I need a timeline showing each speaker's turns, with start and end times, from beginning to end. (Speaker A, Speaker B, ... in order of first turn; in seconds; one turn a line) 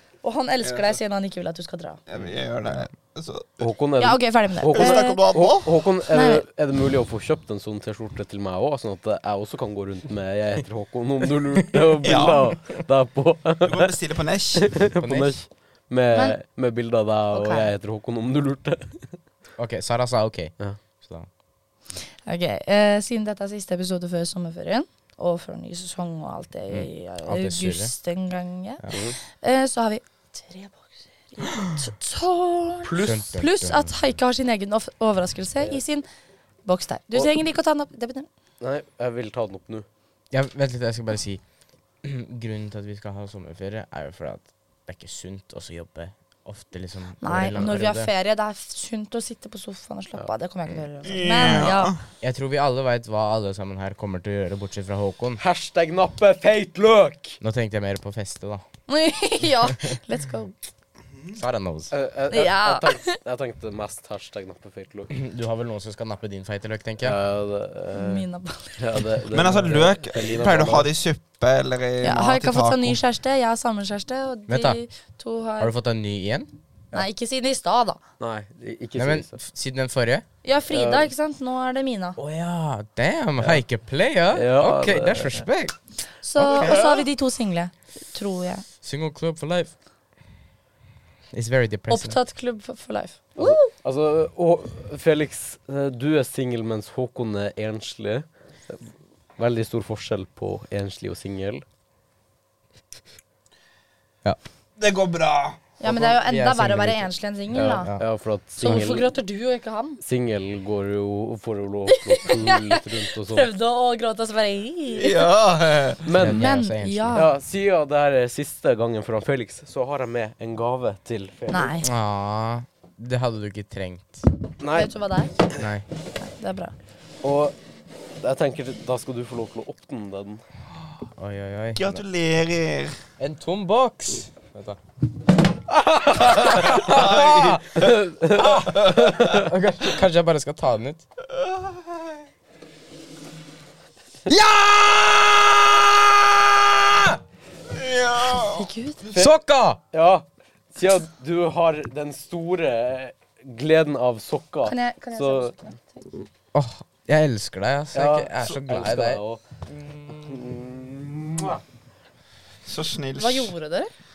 Speaker A: 0.2-2.0
Speaker B: 0.6-0.9
Speaker B: 2.1-3.7
Speaker C: 3.6-13.9
Speaker A: 4.0-5.2
Speaker B: 4.7-5.8
Speaker A: 6.1-6.4
Speaker B: 12.0-12.5
Speaker B: 13.6-14.8
Speaker C: 14.6-19.1
Speaker D: 14.9-15.4
Speaker A: 16.1-16.4
Speaker A: 17.3-17.7
Speaker D: 19.6-21.3
Speaker A: 22.0-36.1
Speaker D: 26.7-27.9
Speaker C: 28.9-29.2
Speaker C: 32.8-33.3
Speaker D: 33.0-33.9
Speaker A: 36.6-38.3
Speaker C: 38.6-39.9
Speaker D: 40.3-41.4
Speaker D: 42.0-48.1
Speaker A: 47.2-51.9
Speaker B: 51.0-52.0
Speaker D: 52.2-55.4
Speaker C: 55.4-57.4
Speaker D: 57.4-58.6
Speaker A: 58.9-60.5
Speaker D: 61.3-61.9
Speaker C: 61.9-65.1
Speaker A: 62.3-63.1
Speaker D: 65.1-67.2
Speaker C: 67.0-70.9
Speaker A: 67.9-69.0
Speaker B: 69.3-73.0
Speaker A: 72.0-75.7
Speaker D: 74.5-74.8
Speaker D: 75.6-76.5
Speaker A: 76.9-78.0
Speaker C: 78.2-79.3
Speaker D: 79.0-80.2
Speaker A: 80.4-82.2
Speaker C: 80.7-81.1
Speaker D: 82.2-85.8
Speaker C: 84.3-85.5
Speaker A: 86.2-88.7
Speaker D: 86.3-86.9
Speaker D: 88.8-89.7
Speaker D: 91.3-92.2
Speaker A: 91.9-93.7
Speaker C: 93.3-101.6
Speaker B: 104.8-105.6
Speaker A: 105.8-107.9
Speaker D: 105.8-108.0
Speaker C: 107.5-109.1
Speaker A: 108.6-110.0
Speaker C: 110.0-113.5
Speaker A: 111.9-115.3
Speaker B: 114.9-116.1
Speaker C: 116.0-116.5
Speaker D: 116.1-117.2
Speaker A: 116.2-117.3
Speaker C: 117.1-121.7
Speaker A: 121.5-121.8
Speaker D: 121.8-124.3
Speaker C: 124.6-124.9
Speaker A: 124.7-125.3
Speaker D: 125.6-125.8
Speaker A: 126.2-126.7
Speaker C: 127.2-127.5
Speaker C: 128.2-130.4
Speaker D: 131.1-132.0
Speaker B: 131.8-133.0
Speaker D: 133.2-134.8
Speaker C: 135.7-137.0
Speaker D: 136.2-137.7
Speaker B: 136.8-137.6
Speaker C: 137.7-139.5
Speaker D: 138.4-141.0
Speaker B: 138.5-139.2
Speaker B: 141.4-141.9
Speaker D: 144.3-147.1
Speaker B: 147.7-148.7
Speaker A: 148.3-149.1
Speaker D: 149.1-149.8
Speaker C: 149.9-155.5
Speaker A: 154.6-156.1
Speaker D: 156.5-159.2
Speaker C: 157.9-159.4
Speaker D: 159.8-160.2
Speaker C: 160.1-161.6
Speaker B: 162.6-163.5
Speaker A: 163.2-163.9